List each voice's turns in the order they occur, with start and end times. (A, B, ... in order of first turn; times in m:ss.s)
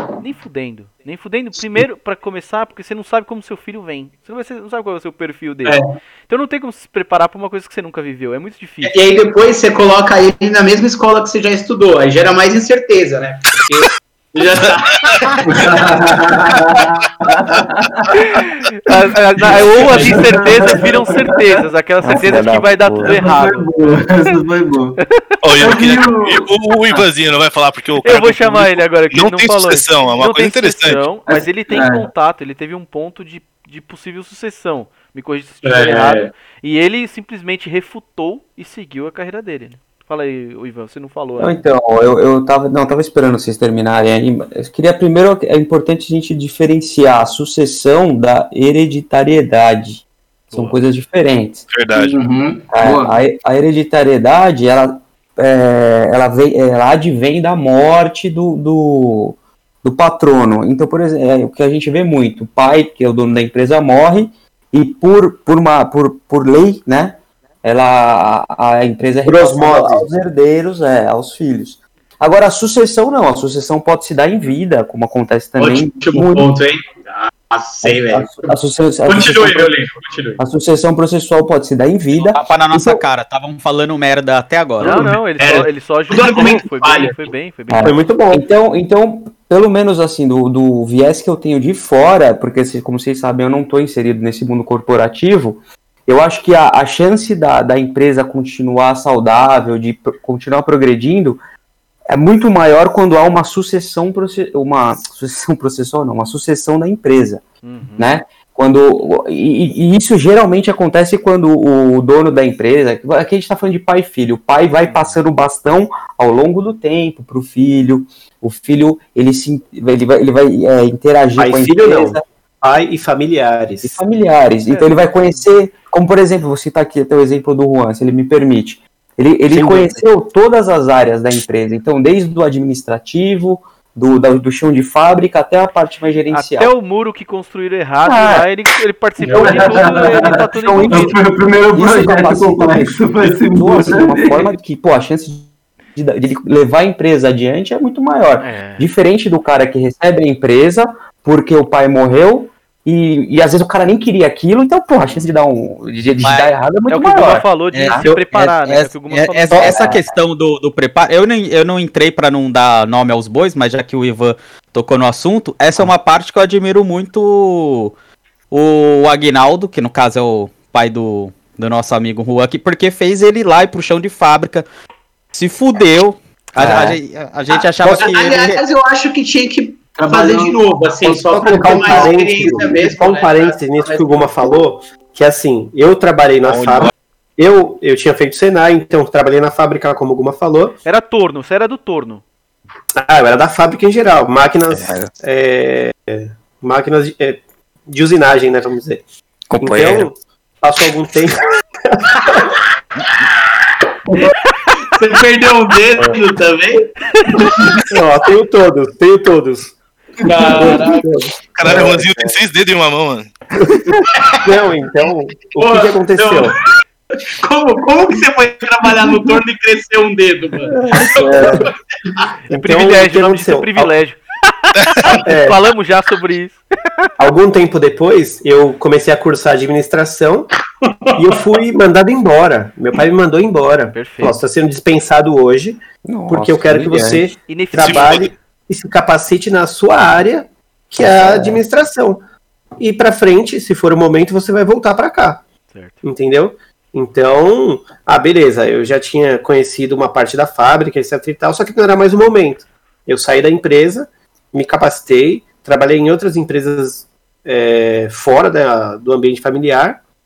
0:00.2-0:09.0 A
0:05.7-0:05.9 B
0:08.8-0:16.8 B
0:15.5-0:18.1 C
0:18.1-0:24.4 A
0:19.6-0:21.4 C
0:19.9-0:20.2 B
0:22.0-0:23.3 D
0:23.0-0:25.0 C
0:25.1-0:25.4 A
0:25.4-0:31.1 E
0:25.6-0:26.5 C
0:28.0-0:41.6 A
0:31.3-0:32.1 C
0:35.6-0:36.3 B
0:41.4-0:51.7 D
0:50.5-0:50.8 A
0:51.7-0:52.2 E
0:51.9-0:53.2 C
0:52.7-1:16.5 D
1:09.3-1:10.1 F
1:15.6-1:18.5 B
1:17.8-1:19.8 D
1:19.1-1:20.4 B
1:20.4-1:23.0 D
1:22.3-1:25.1 G
1:24.8-1:28.0 A
1:24.8-1:27.2 B
1:27.7-1:41.4 D
1:27.8-1:28.4 F
1:42.1-1:47.4 D
1:47.6-1:48.1 A
1:48.0-2:02.2 D
1:54.8-1:55.2 A
2:01.4-2:04.0 F
2:03.8-2:16.7 D
2:04.7-2:05.4 A
2:09.5-2:10.0 F
2:16.3-2:21.2 A
2:18.0-2:18.5 D
2:19.2-2:19.8 B
2:19.4-2:24.5 C
2:21.7-2:38.2 D
2:28.4-2:28.9 A
2:36.2-2:36.6 G
2:36.9-2:39.9 A
2:37.7-2:48.0 G
2:39.5-2:39.8 F
2:39.6-2:40.0 D
2:48.5-2:54.7 G
2:55.3-2:58.6 G
2:56.6-2:56.9 D
2:56.6-2:56.9 F
2:57.8-3:04.5 B
2:59.9-3:00.6 C
3:01.0-3:10.8 F
3:01.1-3:02.7 D
3:10.9-3:12.2 A
3:13.0-3:19.0 F
3:14.7-3:15.1 D
3:19.5-3:20.1 D
3:19.6-3:22.5 F
3:24.2-3:27.6 B
3:27.8-3:29.7 F
3:30.2-3:31.0 B
3:30.4-3:32.2 F
3:31.6-3:33.3 E
3:34.2-3:34.5 B
3:34.4-3:36.5 F
3:35.6-3:36.6 B
3:37.2-3:42.3 B
3:40.8-3:41.7 F
3:42.5-3:44.0 F
3:42.5-3:47.1 A
3:45.2-3:45.6 F
3:47.2-3:50.5 F
3:50.8-3:51.4 B
3:51.2-4:02.2 F
3:53.9-3:54.4 A
3:56.1-3:57.3 D
3:57.5-3:58.3 A
3:57.8-3:58.3 E
4:01.0-4:01.6 D
4:02.8-4:05.4 F
4:05.7-4:06.0 A
4:06.0-4:20.0 F